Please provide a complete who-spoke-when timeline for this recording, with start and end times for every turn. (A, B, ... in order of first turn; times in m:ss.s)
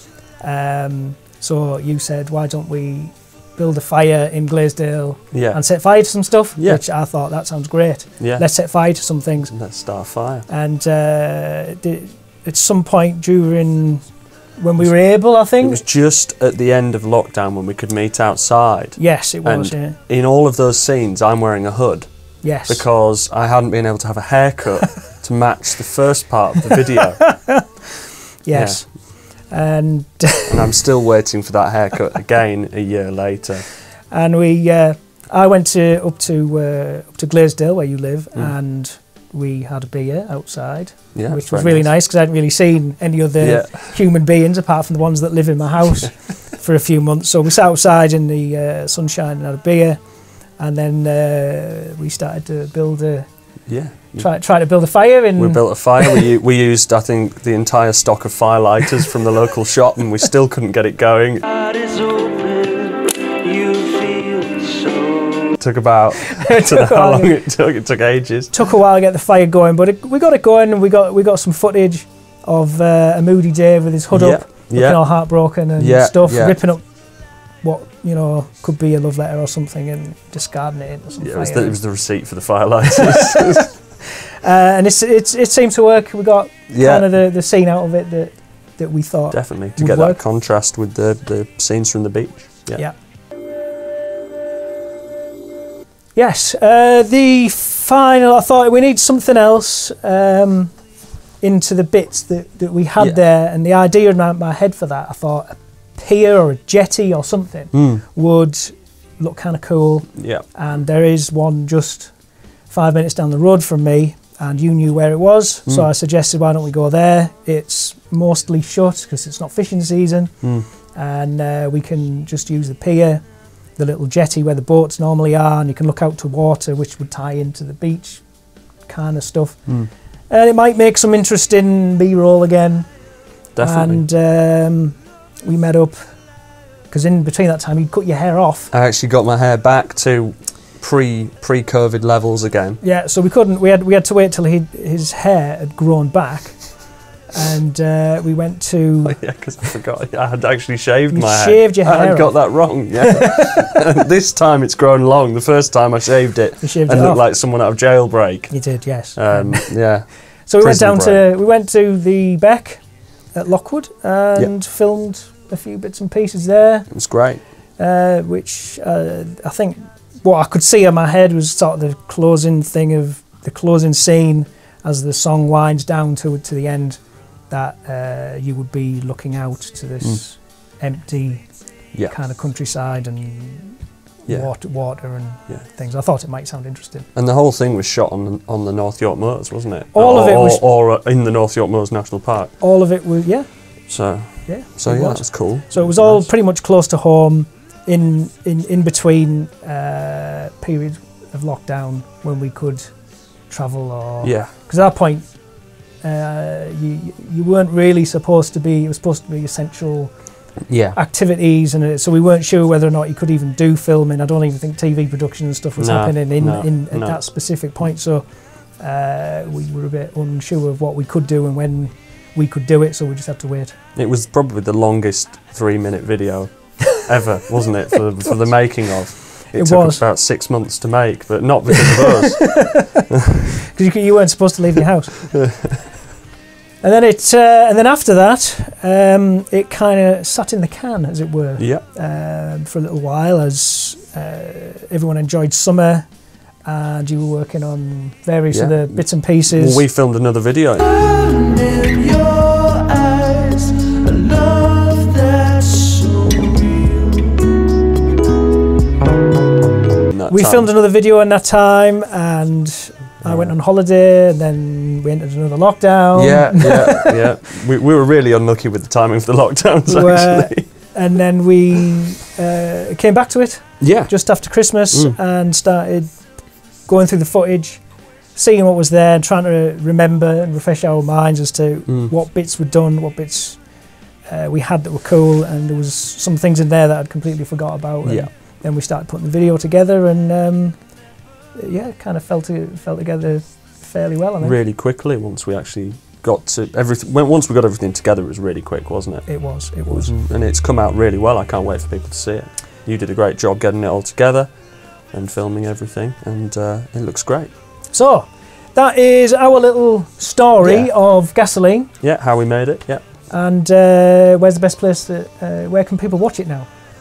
0:00.4-0:09.6 A
0:05.3-0:05.6 B
0:06.6-0:06.8 B
0:08.2-0:08.4 B
0:09.5-0:10.5 B
0:10.5-0:14.0 A
0:14.6-0:15.8 A
0:15.6-0:27.2 B
0:19.0-0:20.0 A
0:22.4-0:22.9 A
0:27.2-0:27.7 A
0:28.4-0:30.7 A
0:28.5-0:28.9 B
0:30.5-0:33.7 B
0:34.1-0:50.0 A
0:41.2-0:41.9 B
0:43.4-0:44.0 B
0:50.6-0:53.3 A
0:53.7-0:54.3 B
0:54.2-0:56.3 A
0:55.4-1:01.5 B
1:01.5-1:05.6 C
1:05.6-1:08.5 B
1:06.2-1:07.4 A
1:08.5-1:16.9 A
1:14.1-1:15.2 B
1:15.8-1:16.6 B
1:17.6-1:21.8 A
1:21.2-1:23.7 B
1:23.0-1:23.8 A
1:24.4-1:30.2 A
1:26.7-1:27.1 B
1:29.3-1:32.8 B
1:36.2-1:40.7 A
1:41.4-1:52.1 A
1:47.7-1:48.0 B
1:50.2-1:50.4 B
1:52.7-2:08.3 A
2:00.4-2:00.7 B
2:08.9-2:12.9 A
2:13.6-2:14.0 B
2:13.6-2:16.2 A
2:16.9-2:18.7 A
2:18.7-2:22.8 B
2:22.8-2:29.2 A
2:29.0-2:41.3 B
2:31.1-2:33.5 A
2:36.6-2:37.2 A
2:38.5-2:47.1 A
2:46.9-2:47.4 B
2:47.8-3:07.1 A
3:04.3-3:05.6 B
3:07.2-3:12.6 B
3:09.9-3:10.6 A
3:12.6-3:25.3 A
3:13.9-3:16.3 B
3:24.2-3:24.5 B
3:26.0-3:30.2 A
3:30.7-3:31.0 B
3:30.7-3:43.8 A
3:35.8-3:37.2 B
3:44.0-3:52.7 B
3:49.5-3:50.0 A
3:52.1-3:52.9 A
3:53.6-3:55.5 A
3:56.8-4:06.1 A
4:01.6-4:01.8 B
4:06.6-4:09.8 A
4:08.5-4:10.9 B
4:10.9-4:17.5 C
4:20.1-4:20.7 B
4:20.3-4:27.2 A
4:23.2-4:23.6 B
4:26.2-4:30.7 B
4:29.9-4:43.7 A
4:33.8-4:35.2 B
4:41.9-4:42.1 B
4:44.3-4:51.0 A
4:48.0-4:48.3 B
4:51.6-4:54.6 A
4:54.4-5:07.5 B
4:59.3-5:00.1 A
5:07.9-5:11.9 A
5:10.6-5:10.9 B
5:12.0-5:13.0 B
5:13.3-5:16.7 A